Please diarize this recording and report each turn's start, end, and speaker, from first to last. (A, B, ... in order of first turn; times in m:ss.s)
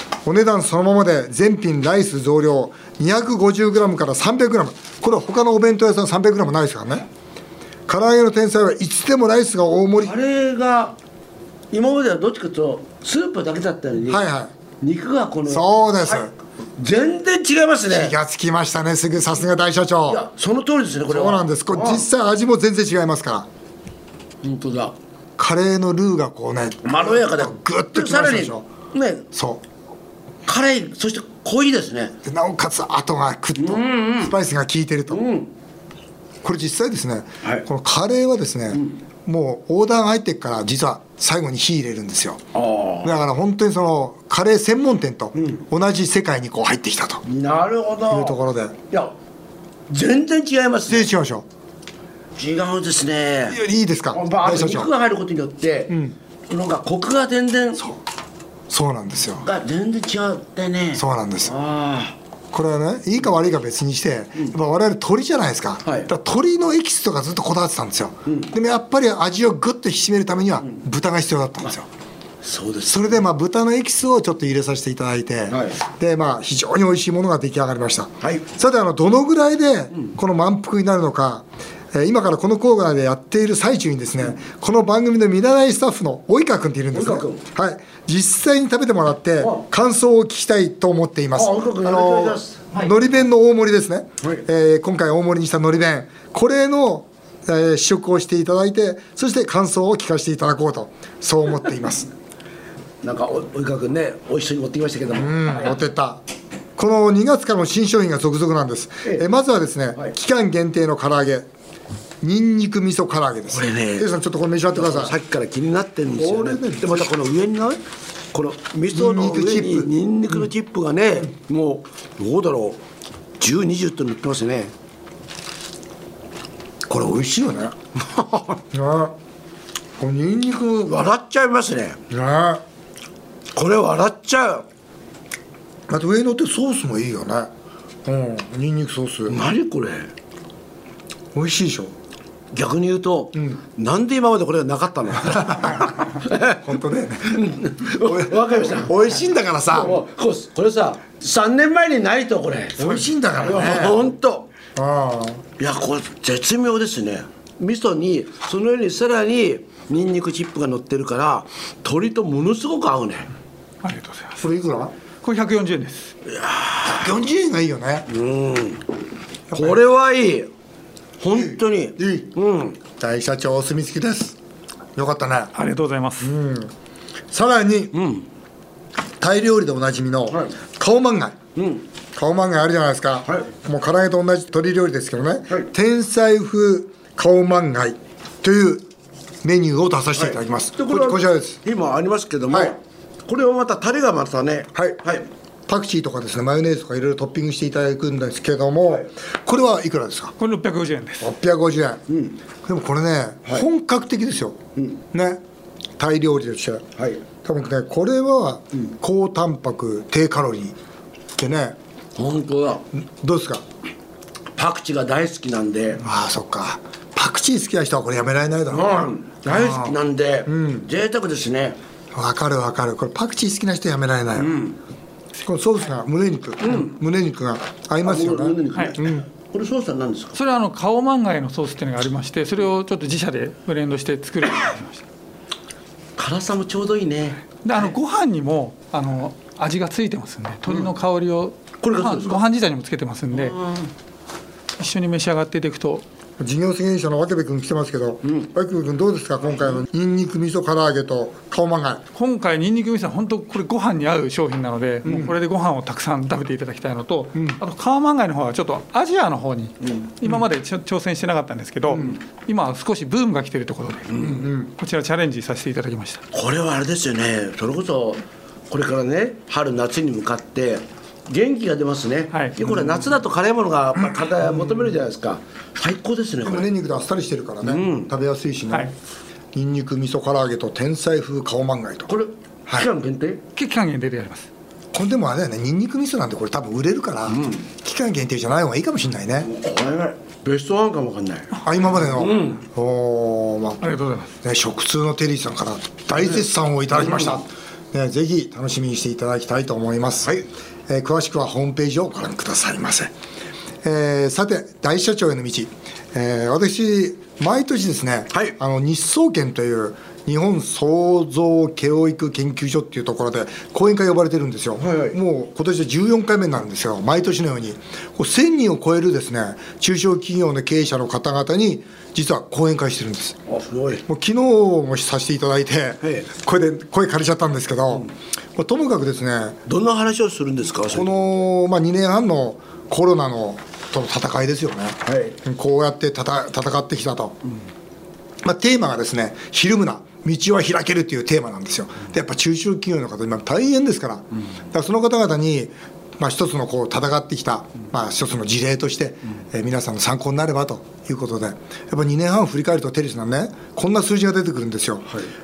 0:00.2-0:07.1 A
0:07.9-0:10.1 A
0:10.0-0:11.0 B
0:11.7-0:14.2 B
0:14.1-0:14.5 A
0:14.8-0:18.2 B
0:15.5-0:16.3 A
0:17.9-0:20.2 A
0:20.1-0:22.0 B
0:21.1-0:23.5 A
0:24.4-0:25.0 B
0:25.4-0:28.7 A
0:26.8-0:29.2 B
0:29.3-0:29.6 A
0:30.4-0:32.1 B
0:32.2-0:35.2 A
0:33.6-0:34.3 B
0:35.1-0:35.5 B
0:36.4-0:42.4 A
0:42.5-0:43.1 B
0:43.0-0:47.2 A
0:45.4-0:45.6 B
0:47.2-0:48.4 B
0:48.1-0:48.7 A
0:49.9-0:51.1 B
0:50.9-0:51.4 A
0:52.4-0:53.6 B
0:53.5-0:54.9 A
0:54.1-0:55.9 B
0:55.9-0:56.1 A
0:56.5-0:57.8 B
0:58.7-0:59.5 A
0:59.4-1:02.2 B
1:01.0-1:01.5 A
1:02.5-1:11.9 A
1:12.4-1:13.2 B
1:12.9-1:42.1 A
1:15.5-1:15.8 B
1:26.9-1:27.4 B
1:31.3-1:32.8 B
1:43.0-1:45.7 B
1:45.1-1:46.2 A
1:46.8-1:51.5 A
1:52.2-1:55.2 A
1:53.5-1:54.1 B
1:54.7-1:57.8 B
1:56.1-1:57.1 A
1:58.3-2:02.8 B
1:58.9-1:59.9 A
2:03.4-2:04.7 B
2:06.9-2:07.7 A
2:08.0-2:08.6 B
2:08.7-2:09.1 A
2:10.0-2:11.0 A
2:10.8-2:12.0 B
2:12.1-2:12.6 A
2:13.5-2:14.6 B
2:15.9-2:17.5 A
2:18.0-2:19.4 A
2:19.3-2:20.1 B
2:21.3-2:21.9 A
2:22.5-2:26.6 B
2:25.5-2:25.9 A
2:26.6-2:30.0 A
2:27.3-2:29.0 B
2:29.7-2:34.5 B
2:32.8-2:34.0 A
2:34.8-2:35.4 A
2:35.6-2:43.3 B
2:43.8-2:44.5 C
2:44.4-2:44.9 A
2:45.2-2:46.1 C
2:46.3-2:47.0 B
2:46.9-2:48.1 A
2:48.1-2:48.8 B
2:49.5-2:49.8 A
2:49.5-2:50.5 B
2:51.2-2:52.8 B
2:51.3-2:52.3 A
2:52.9-2:54.4 A
2:55.0-2:55.5 A
2:55.5-2:56.3 C
2:56.2-2:56.7 A
2:57.3-2:58.0 A
2:57.9-2:58.2 B
2:59.2-3:01.4 A
3:01.6-3:01.8 B
3:02.1-3:08.8 A
3:09.4-3:11.6 A
3:10.2-3:15.3 B
3:14.7-3:15.0 A
3:15.7-3:20.3 A
3:20.4-3:21.3 C
3:21.2-3:22.0 A
3:22.1-3:22.4 B
3:22.6-3:24.6 A
3:25.1-3:25.4 A
3:26.0-3:26.8 A
3:27.4-3:30.7 A
3:31.4-3:31.8 A
3:32.2-3:32.8 B
3:32.9-3:33.6 A
3:34.5-3:36.0 B
3:36.0-3:40.0 A
3:38.7-3:41.8 B
3:40.5-3:40.9 A
3:42.1-3:44.6 A
3:44.4-3:44.7 B
3:45.4-3:49.2 A
3:46.6-3:46.9 B
3:48.0-3:50.4 B
3:50.4-3:55.0 C
3:56.2-3:57.4 B
3:57.6-4:03.6 C
4:01.8-4:02.4 B
4:03.3-4:03.9 B
4:04.8-4:06.0 C
4:06.4-4:12.0 A
4:12.1-4:26.2 C
4:15.0-4:15.3 A
4:17.3-4:17.6 A
4:24.1-4:24.4 B
4:24.2-4:24.7 A
4:26.3-4:36.7 B
4:32.3-4:32.6 C
4:32.7-4:33.0 A
4:34.4-4:34.9 A
4:36.4-4:38.9 A
4:37.6-4:38.1 B
4:39.5-4:42.1 A
4:42.1-4:43.4 B
4:43.5-4:44.5 C
4:44.9-4:49.5 A
4:47.3-4:47.6 B
4:49.4-4:52.6 B
4:51.6-4:53.8 A
4:53.8-4:54.3 C
4:54.4-5:00.3 A
4:57.0-4:57.3 B
5:00.9-5:03.1 A
5:03.8-5:23.4 A
5:14.8-5:15.2 B
5:23.5-5:24.0 B
5:24.0-5:29.6 A
5:29.7-5:31.1 B
5:30.9-5:37.4 A
5:35.0-5:35.4 B
5:38.4-5:55.0 A